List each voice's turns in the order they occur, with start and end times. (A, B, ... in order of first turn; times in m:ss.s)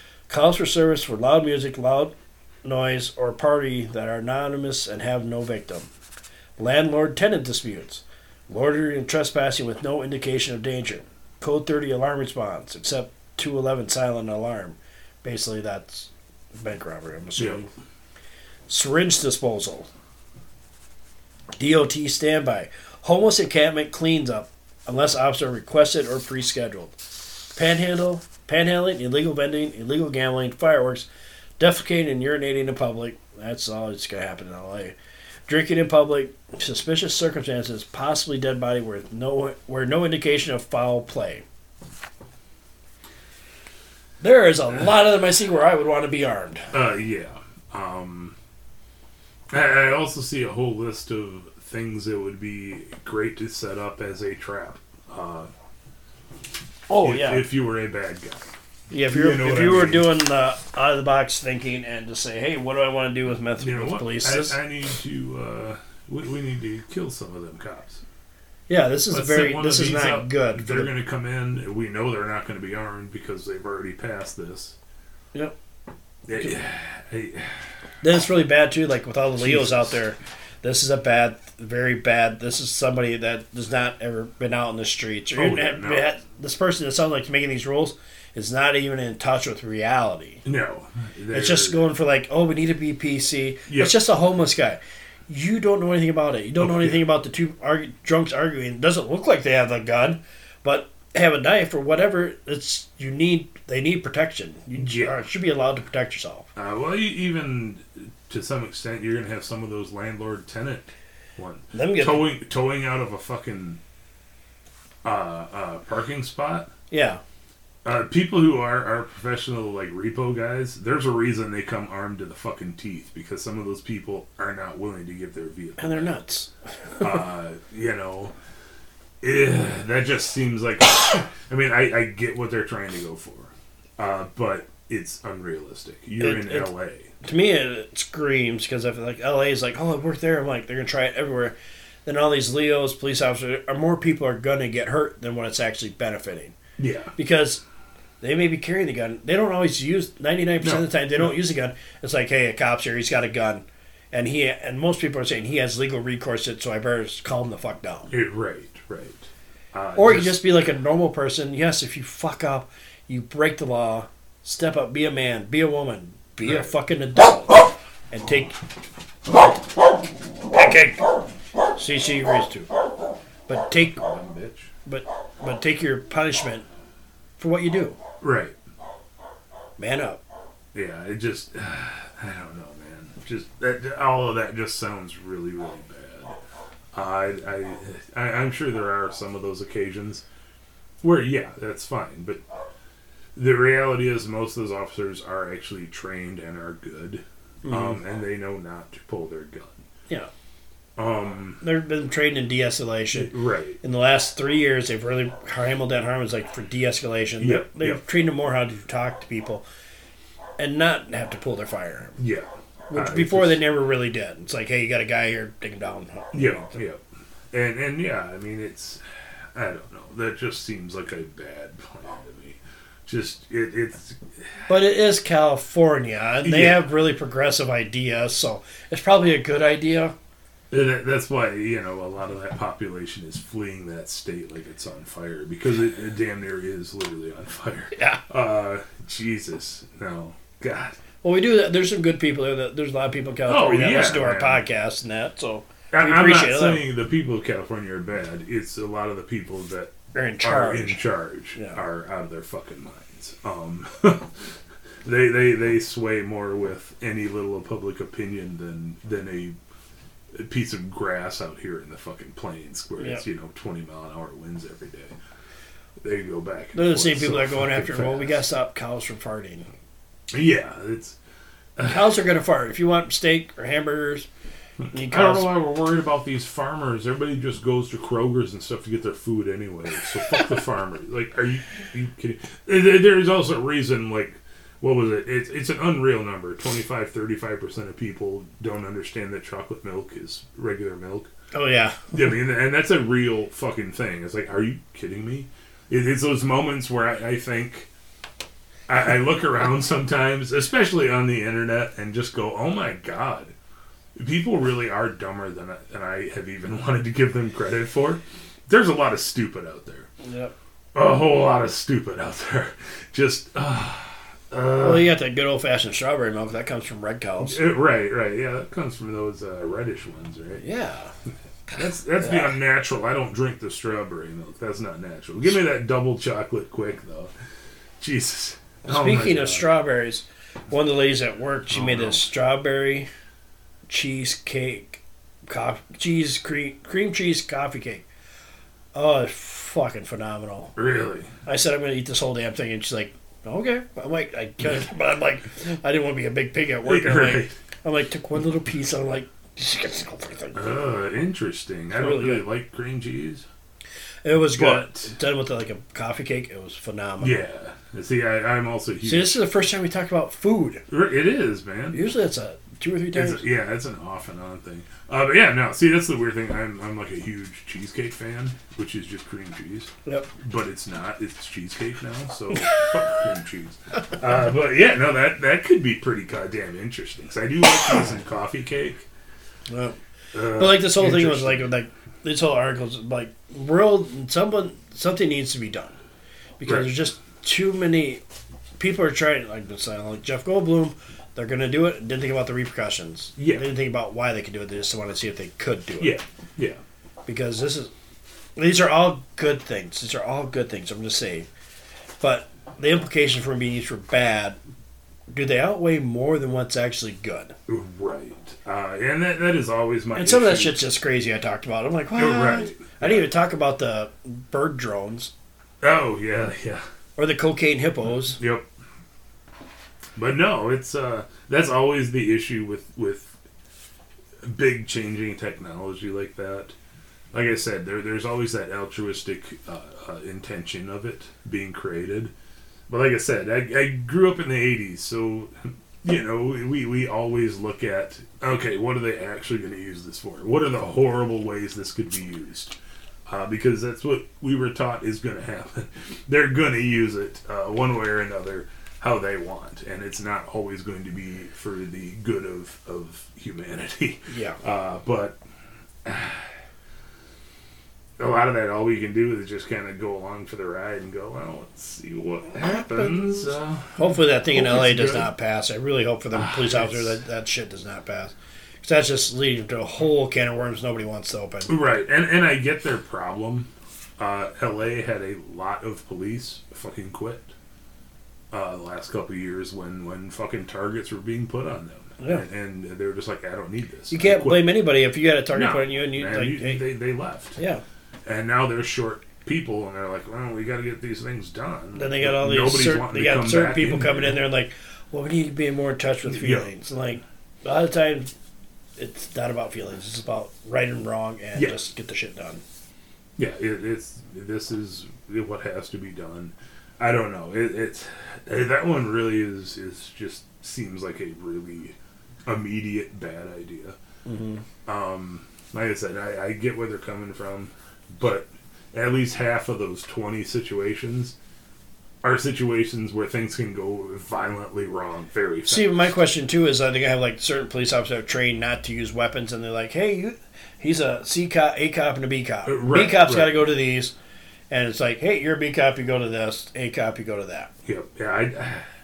0:00.3-0:05.9 A
0:06.6-0:17.7 A
0:18.7-0:19.9 A
0:21.6-0:27.0 A
0:27.6-0:31.1 A
0:31.6-0:34.9 A
0:35.5-0:41.4 A
0:44.2-0:46.7 A
0:46.7-0:48.4 B
0:49.5-0:55.5 B
0:56.9-0:57.4 A
0:57.0-0:58.5 B
0:58.9-1:04.6 A
0:59.1-1:00.1 B
1:03.6-1:08.0 B
1:08.7-1:10.9 A
1:09.1-1:14.8 B
1:16.3-1:17.7 B
1:18.0-1:30.4 A
1:19.4-1:20.0 B
1:25.4-1:26.1 B
1:30.4-1:31.8 B
1:31.3-1:46.5 A
1:33.7-1:33.9 B
1:36.6-1:37.0 B
1:44.8-1:45.2 B
1:46.5-1:53.8 B
1:51.7-1:52.3 A
1:55.0-1:56.7 B
1:56.9-1:57.2 A
1:57.8-2:06.1 B
2:05.8-2:07.2 A
2:07.0-2:08.3 B
2:09.2-2:17.1 B
2:16.2-2:16.7 A
2:17.2-2:26.6 A
2:26.8-2:27.1 B
2:27.2-2:27.6 A
2:28.2-2:38.1 A
2:30.6-2:31.3 B
2:38.1-2:40.4 B
2:40.0-2:48.6 A
2:46.4-2:46.7 B
2:50.5-2:50.9 A
2:51.7-2:52.7 A
2:53.5-2:54.0 A
2:53.9-2:54.7 B
2:54.8-2:56.6 A
2:57.4-2:58.0 A
2:58.2-2:58.6 B
2:59.8-3:00.2 A
3:00.7-3:06.4 B
3:06.9-3:10.2 B
3:11.0-3:12.4 B
3:13.3-3:19.8 B
3:17.6-3:18.0 A
3:21.0-3:21.6 B
3:21.6-3:29.6 A
3:23.1-3:23.8 B
3:27.4-3:28.0 B
3:30.6-3:32.2 A
3:32.2-3:33.6 B
3:32.9-3:36.7 A
3:36.3-3:44.7 B
3:44.7-3:50.2 A
3:46.4-3:46.8 B
3:50.7-4:01.0 B
3:57.9-3:58.2 A
4:01.2-4:06.8 A
4:03.5-4:04.6 B
4:05.9-4:19.6 B
4:10.1-4:11.0 A
4:11.5-4:11.8 A
4:20.3-4:25.1 B
4:26.0-4:28.4 B
4:26.7-4:29.7 A
4:30.3-4:31.2 B
4:31.8-4:32.1 B
4:31.8-4:34.3 A
4:34.9-4:35.5 A
4:35.0-4:51.3 B
4:51.5-4:52.1 A
4:52.1-4:57.9 B
4:58.9-5:03.5 B
5:04.1-5:10.1 B
5:10.2-5:10.5 A
5:10.9-5:15.2 B
5:14.8-5:17.6 A
5:17.4-5:20.6 B
5:20.6-5:21.1 A
5:21.7-5:27.3 B
5:22.2-5:22.5 A
5:28.0-5:29.7 B
5:28.8-5:33.1 A
5:31.7-5:32.3 B
5:33.9-5:38.0 A
5:38.9-5:40.7 A
5:40.8-5:41.3 B
5:41.4-5:50.7 A
5:46.8-5:47.5 B
5:50.5-5:53.4 B
5:51.9-5:52.4 A
5:54.2-5:57.4 A
5:54.5-5:55.1 B
5:57.2-5:59.4 B
5:59.0-6:00.8 A
6:00.9-6:02.0 B
6:01.9-6:03.4 A
6:03.1-6:19.1 B
6:10.0-6:10.3 A
6:12.6-6:12.9 A
6:19.7-6:26.0 A
6:20.3-6:21.7 B
6:26.6-6:28.2 A
6:28.8-6:36.2 A
6:33.4-6:33.6 B
6:36.0-6:36.8 B
6:37.2-6:37.9 A
6:38.6-6:41.5 A
6:42.2-6:44.6 A
6:45.3-6:47.6 A
6:47.7-6:50.8 B
6:50.1-6:55.3 A
6:52.1-6:53.3 B
6:55.8-6:56.8 B
6:57.2-6:58.4 A
6:58.4-6:58.7 B
7:00.2-7:03.4 B
7:04.4-7:06.7 B
7:07.3-7:12.3 B
7:12.9-7:35.4 B
7:34.3-7:34.6 A
7:36.0-7:36.6 B
7:38.2-7:45.3 B
7:42.6-7:51.7 A
7:46.3-7:47.2 B
7:51.7-7:57.5 B
7:58.5-8:04.7 B
8:04.1-8:06.8 A
8:05.5-8:07.6 B
8:07.6-8:07.8 A
8:08.2-8:14.4 B
8:11.9-8:18.3 A
8:16.2-8:16.7 B
8:19.0-8:22.6 A
8:23.4-8:34.0 B
8:34.2-8:34.6 A
8:34.8-8:41.4 B
8:42.2-8:45.9 B
8:45.6-8:54.1 A
8:52.6-8:53.6 B
8:54.7-8:57.7 A
8:57.8-8:58.9 B